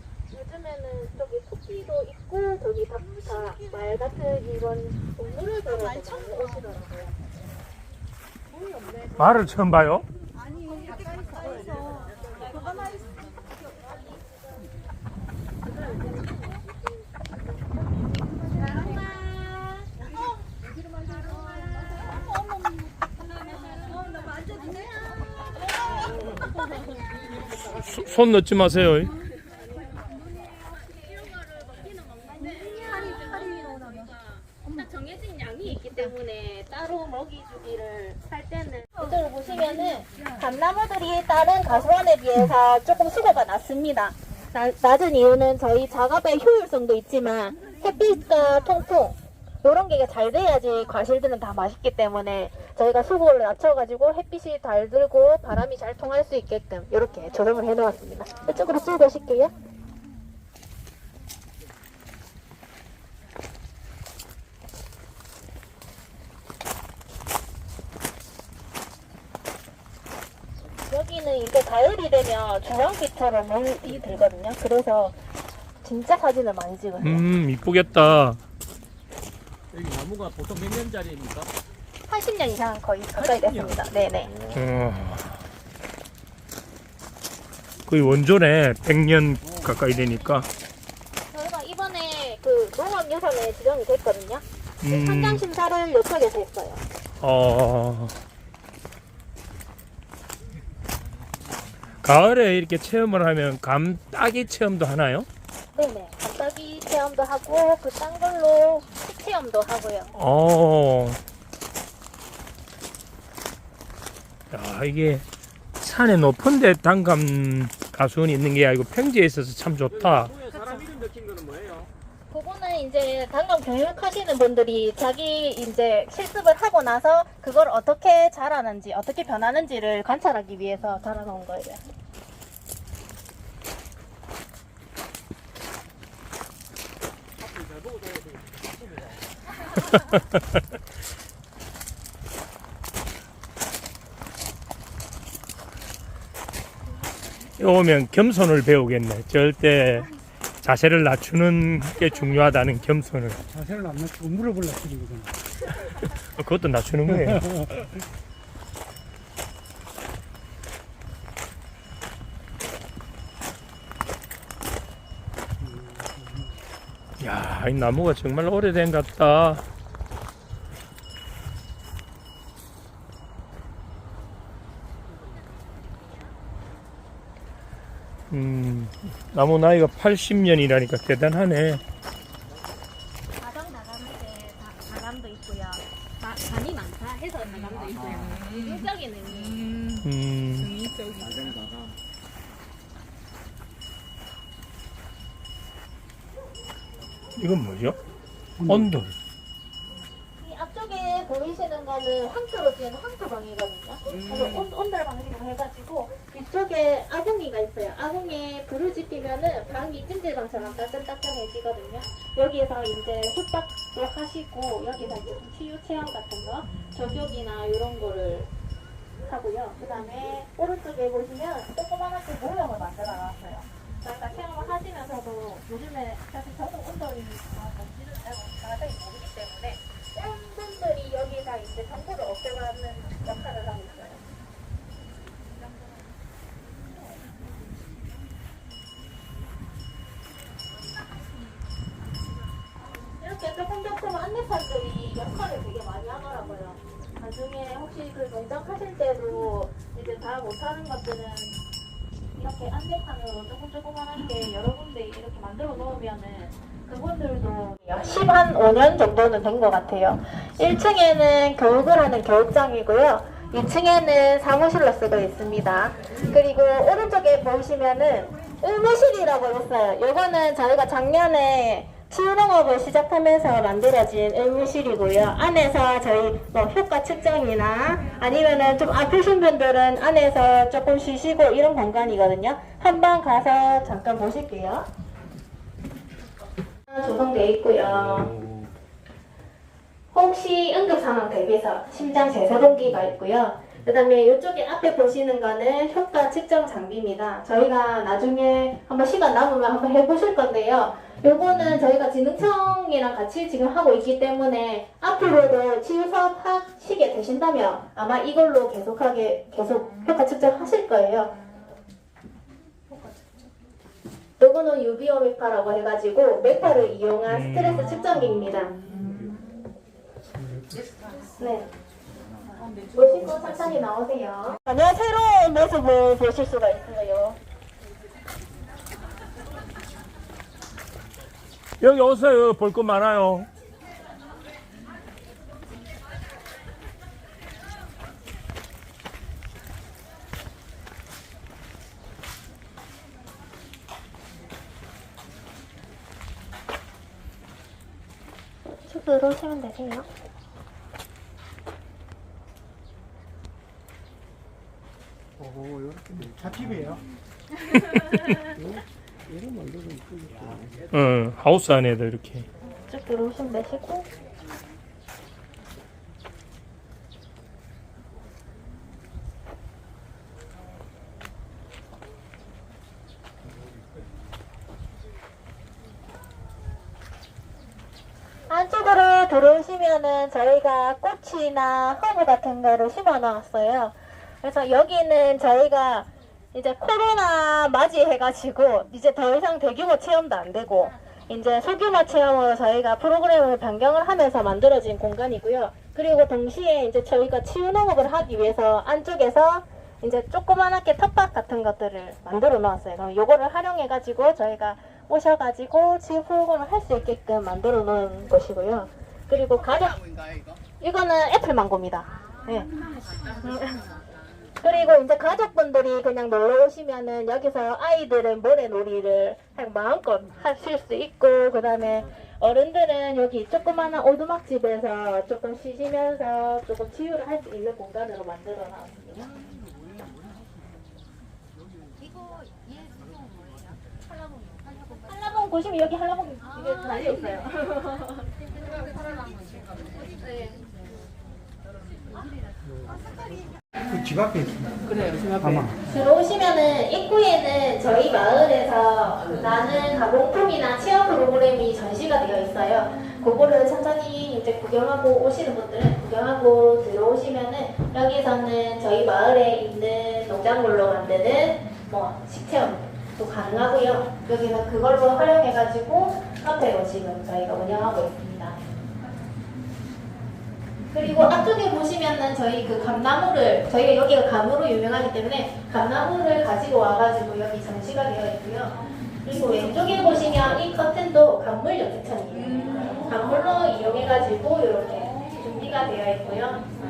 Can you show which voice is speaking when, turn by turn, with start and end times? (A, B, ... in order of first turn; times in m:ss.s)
0:00.3-0:07.2 A
0:08.6-0:09.0 A
0:09.2-0:10.0 B
0:11.4-0:11.8 A
0:18.6-0:20.2 A
0:21.4-0:22.6 A
0:23.7-0:27.3 A
0:27.8-0:29.1 B
0:29.4-0:29.9 A
0:30.7-0:59.5 A
1:10.9-1:15.2 A
1:15.8-1:17.2 A
1:17.0-1:18.4 B
1:19.7-1:21.5 C
1:22.1-1:24.3 A
1:23.2-1:23.8 C
1:24.5-1:25.4 B
1:27.9-1:30.5 B
1:31.3-1:36.8 A
1:34.8-1:35.4 B
1:37.2-1:38.2 B
1:42.0-1:45.3 B
1:45.7-1:50.1 A
1:50.2-1:51.2 B
1:54.5-1:55.2 B
1:55.8-2:00.3 B
2:00.0-2:01.9 C
2:00.5-2:00.9 A
2:02.3-2:11.8 A
2:17.7-2:18.4 C
2:27.6-2:30.1 B
2:30.6-2:33.4 B
2:33.5-2:35.4 D
2:36.4-2:37.5 B
2:45.6-2:46.5 D
2:47.2-2:49.6 B
2:58.3-3:01.8 B
3:03.4-3:09.8 A
3:07.8-3:08.5 C
3:10.0-3:10.8 B
3:11.0-3:11.9 C
3:17.4-3:18.0 B
3:18.6-3:18.9 D
3:18.7-3:19.1 B
3:20.4-3:38.5 A
3:39.2-3:54.2 A
4:03.2-4:11.6 A
4:12.4-4:44.9 A
4:46.9-4:48.4 A
4:50.1-5:11.4 A
5:14.4-5:18.8 A
5:17.3-5:18.0 B
5:20.4-5:20.9 D
5:21.4-5:21.7 A
5:22.9-5:27.4 A
5:31.8-5:33.5 B
5:48.8-5:50.1 A
5:55.4-5:57.0 D
5:58.6-6:00.8 C
6:00.9-6:02.5 B
6:02.9-6:04.1 A
6:18.5-6:50.0 A
6:50.8-6:52.7 A
6:53.4-6:53.9 A
6:54.6-7:09.3 A
7:14.9-7:18.3 A
7:23.9-7:25.8 D
7:25.0-7:25.4 C
7:25.9-7:48.6 A
7:50.9-8:06.6 A